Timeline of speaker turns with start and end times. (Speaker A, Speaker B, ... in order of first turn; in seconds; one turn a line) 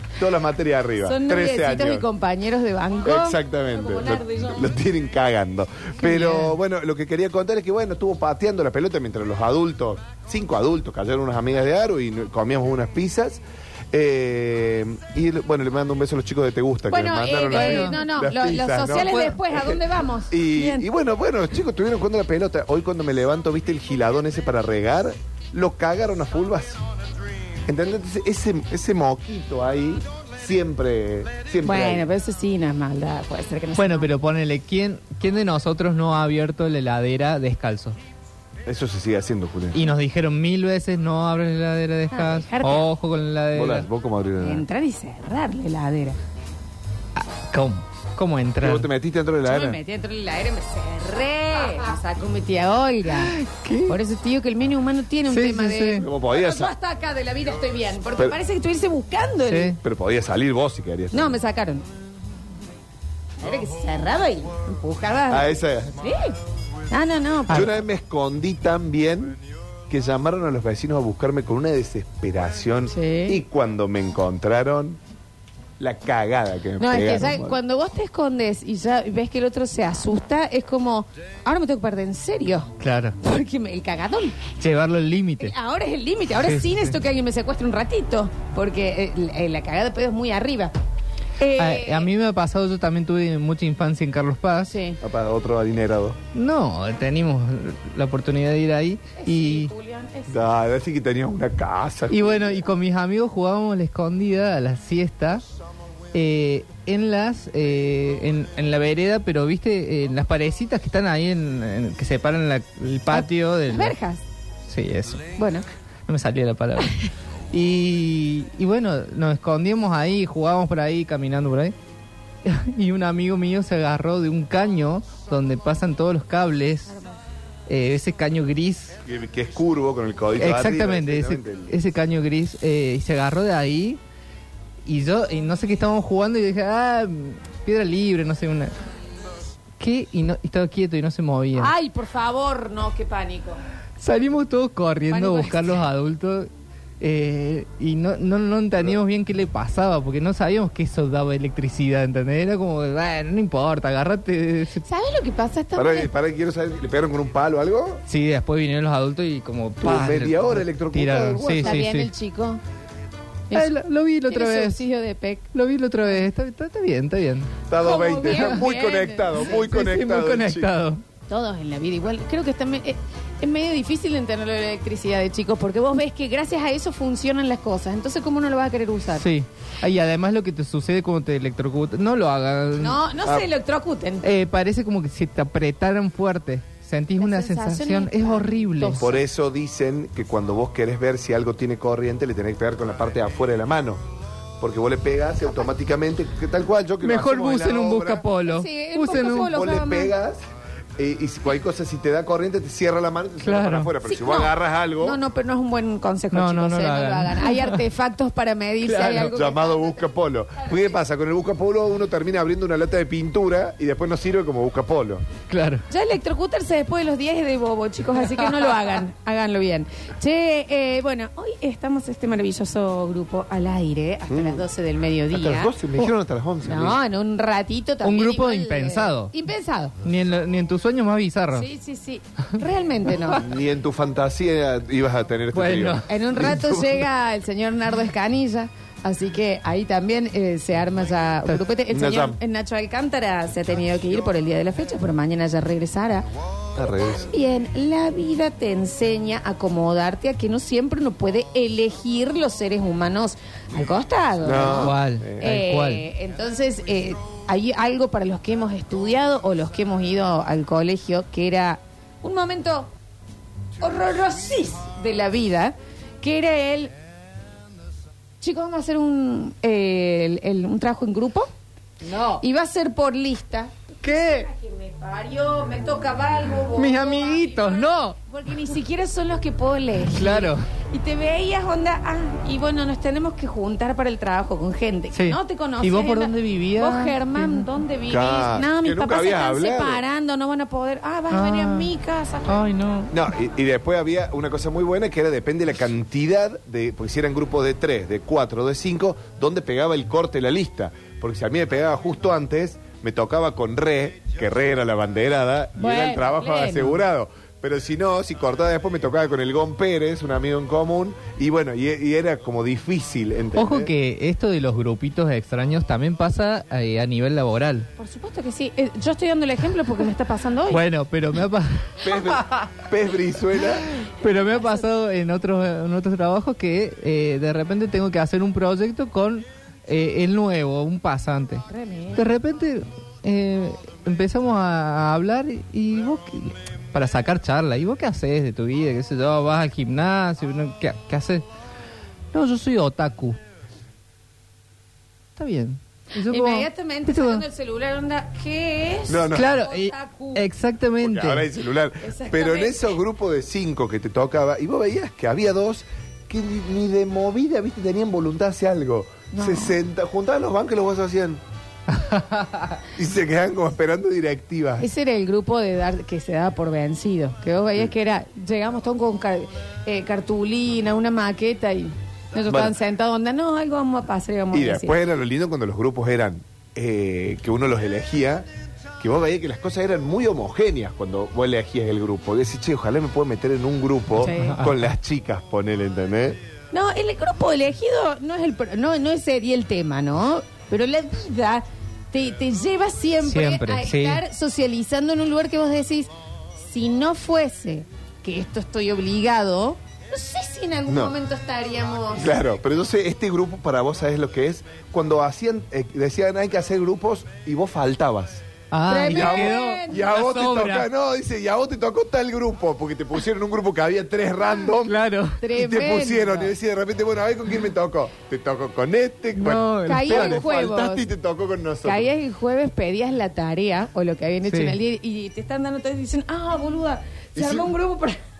Speaker A: 0.2-2.1
Speaker B: 1.0-4.7
Speaker A: 3.0-26.8
Speaker B: 6.0-6.5
Speaker B: 16.9-20.9
Speaker C: 17.5-18.0
Speaker C: 18.9-19.4
Speaker A: 27.7-32.0
Speaker B: 31.6-34.1
Speaker C: 33.8-38.0
Speaker A: 38.7-39.8
Speaker C: 39.7-43.9
Speaker B: 42.1-42.9
Speaker A: 43.5-44.6
Speaker B: 44.4-46.2
Speaker C: 47.2-48.9
Speaker A: 48.6-49.8
Speaker B: 49.5-59.8
Speaker C: 53.2-54.0
Speaker C: 55.3-56.0
Speaker A: 56.0-56.7
Speaker C: 59.5-59.8
Speaker A: 59.8-61.4
Speaker B: 61.1-61.9
Speaker B: 63.4-66.4
Speaker A: 65.3-65.9
Speaker B: 66.9-67.7
Speaker A: 67.5-69.4
Speaker A: 69.9-75.0
Speaker B: 72.9-73.4
Speaker A: 75.8-77.6
Speaker B: 76.8-84.5
Speaker C: 82.8-83.2
Speaker C: 84.6-85.5
Speaker B: 85.4-90.8
Speaker C: 86.4-86.9
Speaker B: 91.4-92.1
Speaker C: 91.6-94.7
Speaker B: 94.7-95.0
Speaker A: 95.0-96.2
Speaker C: 96.3-99.7
Speaker B: 99.2-100.4
Speaker A: 100.3-102.7
Speaker C: 102.1-105.4
Speaker C: 106.1-114.0
Speaker B: 113.1-114.2
Speaker C: 114.7-115.3
Speaker B: 115.4-115.7
Speaker C: 116.1-121.8
Speaker C: 122.4-126.9
Speaker B: 126.9-127.2
Speaker C: 127.7-129.0
Speaker A: 129.1-131.8
Speaker C: 130.4-134.0
Speaker C: 134.9-138.7
Speaker C: 139.8-141.7
Speaker B: 141.5-143.6
Speaker C: 144.0-146.5
Speaker B: 145.1-145.8
Speaker C: 147.0-154.9
Speaker B: 154.8-156.1
Speaker A: 155.8-158.0
Speaker C: 158.1-162.1
Speaker A: 159.8-161.8
Speaker B: 161.4-162.6
Speaker B: 163.5-163.8
Speaker C: 163.5-164.8
Speaker B: 164.3-165.5
Speaker C: 165.5-167.6
Speaker A: 167.7-170.7
Speaker B: 167.8-169.7
Speaker C: 169.4-171.0
Speaker B: 171.3-179.3
Speaker C: 179.2-183.0
Speaker B: 182.8-184.3
Speaker C: 184.2-189.0
Speaker B: 187.2-189.2
Speaker A: 189.0-194.0
Speaker A: 194.6-198.3
Speaker C: 197.0-199.6
Speaker B: 198.4-200.1
Speaker A: 199.2-200.4
Speaker A: 201.0-205.2
Speaker C: 203.4-203.9
Speaker B: 204.1-209.7
Speaker C: 206.3-207.8
Speaker C: 208.8-209.4
Speaker A: 209.3-215.3
Speaker C: 215.5-215.9
Speaker B: 215.9-225.7
Speaker A: 224.3-224.6
Speaker A: 225.3-227.0
Speaker B: 226.6-229.9
Speaker C: 228.0-229.3
Speaker C: 230.0-231.7
Speaker B: 231.5-233.5
Speaker A: 233.3-237.0
Speaker C: 235.5-236.1
Speaker B: 236.1-246.3
Speaker A: 241.9-242.4
Speaker A: 246.8-247.3
Speaker B: 247.2-262.9
Speaker A: 254.4-255.6
Speaker C: 254.8-256.1
Speaker B: 263.8-266.9
Speaker B: 268.4-271.5
Speaker C: 272.0-272.4
Speaker B: 272.4-292.7
Speaker C: 274.0-274.5
Speaker C: 276.8-278.2
Speaker C: 280.1-280.7
Speaker C: 285.1-287.7
Speaker A: 288.1-290.0
Speaker C: 291.3-291.9
Speaker C: 292.5-293.1
Speaker A: 293.1-313.9
Speaker B: 305.8-307.0
Speaker C: 313.6-317.9
Speaker B: 318.0-320.8
Speaker C: 320.7-322.7
Speaker A: 322.0-323.9
Speaker C: 323.8-341.4
Speaker B: 331.7-332.2
Speaker C: 342.3-343.4
Speaker C: 345.4-347.4
Speaker B: 346.3-350.5
Speaker A: 349.1-349.6
Speaker C: 349.3-351.5
Speaker A: 351.0-361.4
Speaker B: 352.0-352.9
Speaker B: 359.3-359.8
Speaker C: 362.0-362.7
Speaker A: 362.9-364.9
Speaker B: 364.8-375.0
Speaker A: 372.5-372.8
Speaker A: 374.5-378.5
Speaker A: 379.0-386.4
Speaker B: 384.2-384.6
Speaker C: 384.2-384.8
Speaker B: 386.7-402.4
Speaker C: 393.2-394.2
Speaker A: 400.9-401.1
Speaker A: 402.2-408.4
Speaker C: 408.7-410.9
Speaker B: 408.9-410.1
Speaker A: 409.0-415.0
Speaker C: 414.9-415.4
Speaker B: 415.4-416.5
Speaker A: 415.5-422.1
Speaker C: 419.4-420.4
Speaker B: 419.9-421.1
Speaker B: 421.8-428.2
Speaker C: 424.4-424.8
Speaker A: 427.4-427.7